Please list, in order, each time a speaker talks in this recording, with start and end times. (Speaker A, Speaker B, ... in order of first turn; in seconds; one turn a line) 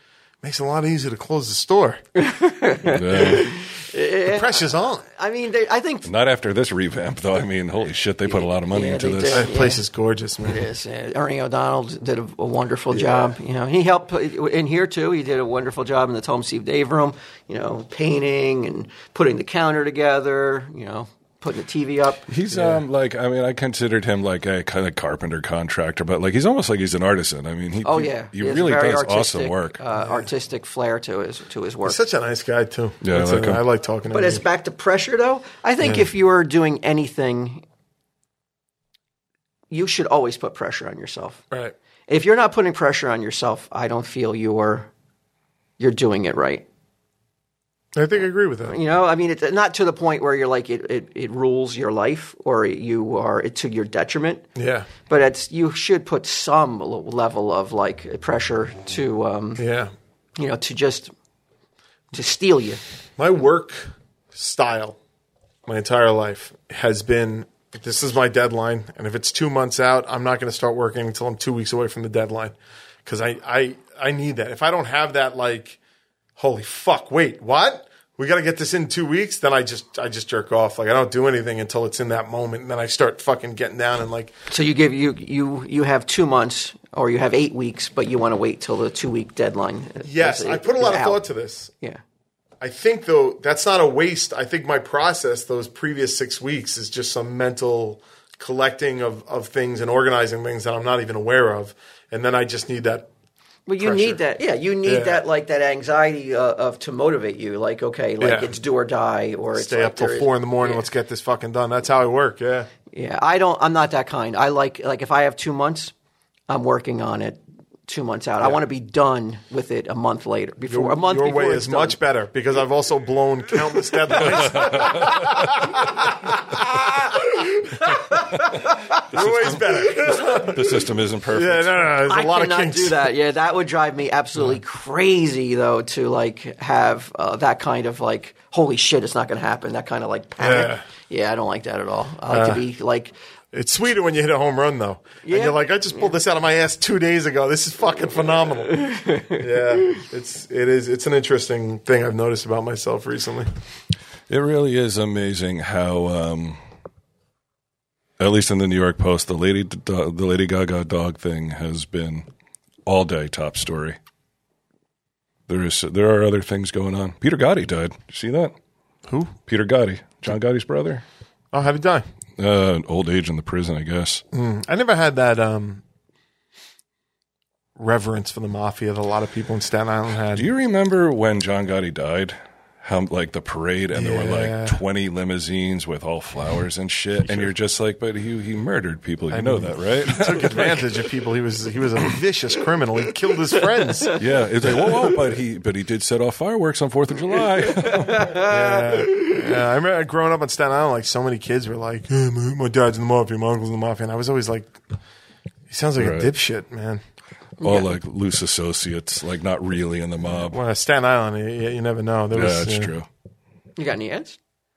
Speaker A: 0.4-2.0
Speaker B: 2.2-6.1
Speaker C: 2.8-3.5
Speaker A: 4.3-5.1
Speaker C: 6.0-9.5
Speaker B: 8.2-9.8
Speaker A: 9.3-10.6
Speaker B: 10.4-22.3
Speaker A: 12.9-13.3
Speaker C: 22.3-29.8
Speaker A: 22.5-22.8
Speaker B: 27.8-32.0
Speaker A: 30.0-30.3
Speaker A: 31.9-34.4
Speaker C: 33.0-33.6
Speaker B: 34.1-37.6
Speaker A: 35.8-36.1
Speaker B: 39.7-41.4
Speaker B: 42.1-44.9
Speaker B: 45.8-46.7
Speaker A: 48.0-48.8
Speaker B: 48.7-54.5
Speaker A: 54.6-54.9
Speaker B: 55.1-59.6
Speaker A: 59.6-59.9
Speaker B: 60.4-61.1
Speaker B: 62.1-62.8
Speaker A: 63.2-65.0
Speaker A: 65.7-75.8
Speaker A: 76.4-84.3
Speaker B: 84.5-91.2
Speaker A: 90.0-91.7
Speaker A: 92.6-103.1
Speaker B: 103.7-110.8
Speaker A: 103.8-104.2
Speaker A: 104.8-105.2
Speaker A: 108.2-108.5
Speaker A: 109.5-112.7
Speaker B: 112.9-115.9
Speaker B: 116.5-122.0
Speaker A: 120.7-133.1
Speaker C: 124.2-125.4
Speaker C: 129.1-131.9
Speaker B: 130.1-130.5
Speaker B: 132.1-143.1
Speaker A: 140.4-140.8
Speaker A: 142.3-142.6
Speaker A: 143.5-153.5
Speaker B: 145.2-145.6
Speaker B: 148.7-150.0
Speaker C: 154.3-156.6
Speaker C: 158.2-162.3
Speaker C: 162.9-164.0
Speaker C: 165.5-168.6
Speaker A: 169.1-169.3
Speaker C: 169.5-171.0
Speaker A: 171.5-172.1
Speaker C: 172.4-174.2
Speaker A: 174.3-175.8
Speaker A: 177.8-180.5
Speaker C: 180.3-191.0
Speaker A: 183.9-184.8
Speaker A: 189.3-194.2
Speaker C: 194.2-198.4
Speaker B: 197.6-199.5
Speaker A: 198.4-204.8
Speaker A: 205.7-207.0
Speaker C: 206.0-206.3
Speaker C: 207.6-210.6
Speaker A: 210.3-212.9
Speaker C: 212.3-213.1
Speaker B: 213.8-214.4